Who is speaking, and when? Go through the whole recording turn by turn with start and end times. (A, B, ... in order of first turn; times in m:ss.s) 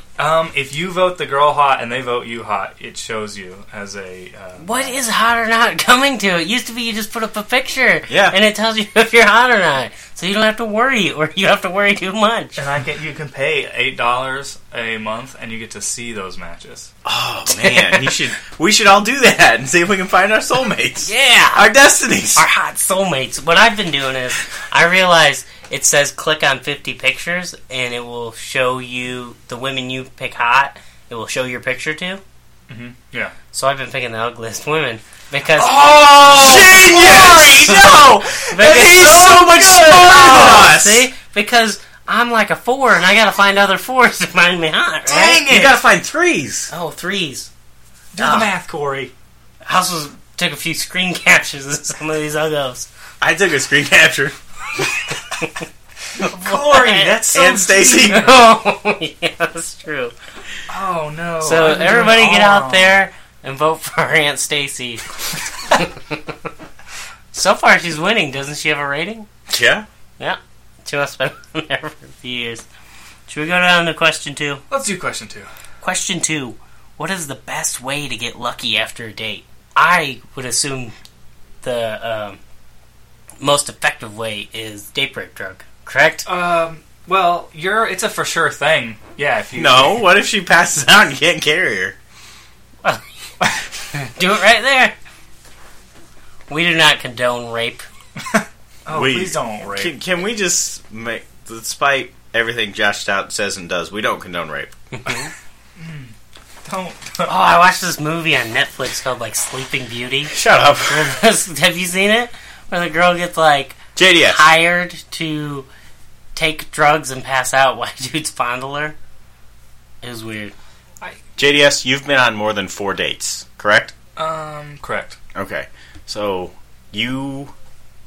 0:00.2-0:05.0 A
0:04.6-0:12.6 B
0:08.1-0:08.4 C
0:12.6-0:16.9 A
0:17.0-0:22.4 C
0:17.5-0:18.2 B
0:21.0-0:21.7 B
0:22.3-0:32.2 B
0:32.7-0:33.3 A
0:33.5-0:36.2 B
0:35.6-0:40.6 A
0:36.3-0:41.1 C
0:38.5-0:39.2 B
0:39.8-0:45.4 B
0:45.1-0:45.8 A
0:45.1-0:46.7 C
0:46.7-0:47.5 B
0:48.1-0:49.1 A
0:48.2-0:48.5 B
0:49.6-0:52.9 B
0:53.2-0:54.8 C
0:56.2-0:58.4 A
0:56.3-0:57.2 B
0:57.3-0:58.3 C
0:57.9-1:00.1 B
1:00.7-1:03.0 A
1:01.4-1:05.1 B
1:05.7-1:06.2 B
1:07.3-1:09.3 B
1:09.5-1:09.9 C
1:10.2-1:12.6 B
1:13.3-1:14.6 B
1:14.7-1:15.5 A
1:15.8-1:20.9 B
1:21.6-1:22.4 B
1:23.4-1:26.3 B
1:26.2-1:30.0 A
1:29.5-1:31.9 C
1:33.9-1:34.9 B
1:36.5-1:37.9 B
1:38.3-1:39.9 A
1:38.9-1:44.7 C
1:44.9-1:45.3 B
1:45.8-1:46.1 A
1:46.6-1:47.3 A
1:47.2-1:55.7 B
1:50.3-1:51.2 C
1:54.0-1:54.5 C
1:56.3-1:58.9 B
2:00.0-2:00.5 B
2:01.4-2:03.9 C
2:04.2-2:05.2 A
2:05.3-2:07.5 C